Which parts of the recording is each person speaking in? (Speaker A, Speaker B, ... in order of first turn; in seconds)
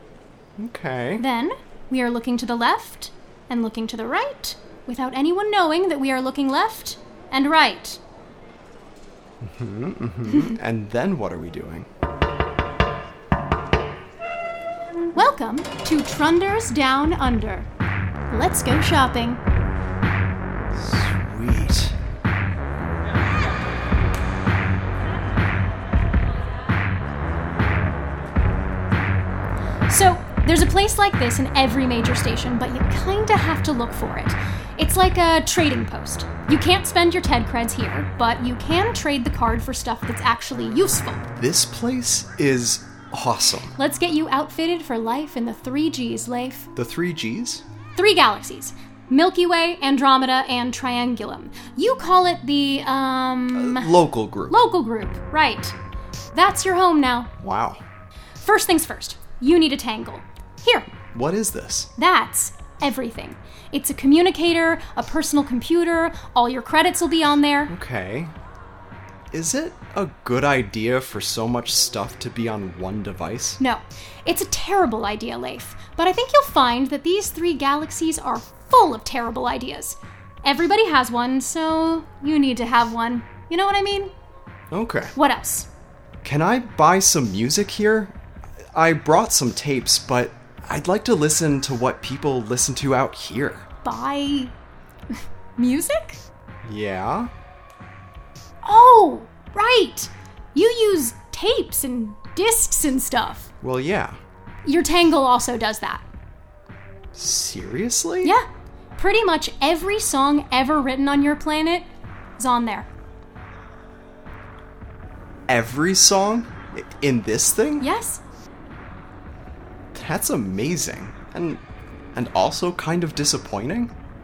Speaker A: 0.6-1.2, 9.4-11.9, 20.7-21.9, 41.4-43.7, 46.8-47.6, 53.5-54.6, 57.4-57.8, 61.1-61.9, 67.7-68.3, 69.3-73.6, 84.7-85.1, 86.2-88.2, 88.7-93.7, 96.6-97.3, 103.6-104.2, 107.1-108.3, 115.5-117.9, 119.9-121.6, 122.1-123.9
Speaker B: 1.2-8.0, 15.1-17.7, 18.3-19.4, 29.9-41.2, 43.8-46.7, 48.0-53.9, 54.5-55.7, 56.3-57.3, 58.4-60.9, 62.0-67.7, 73.6-84.1, 85.2-85.7, 93.8-94.5, 95.6-96.2, 98.6-103.5, 104.6-106.0, 109.0-111.9, 112.4-112.9, 117.8-118.2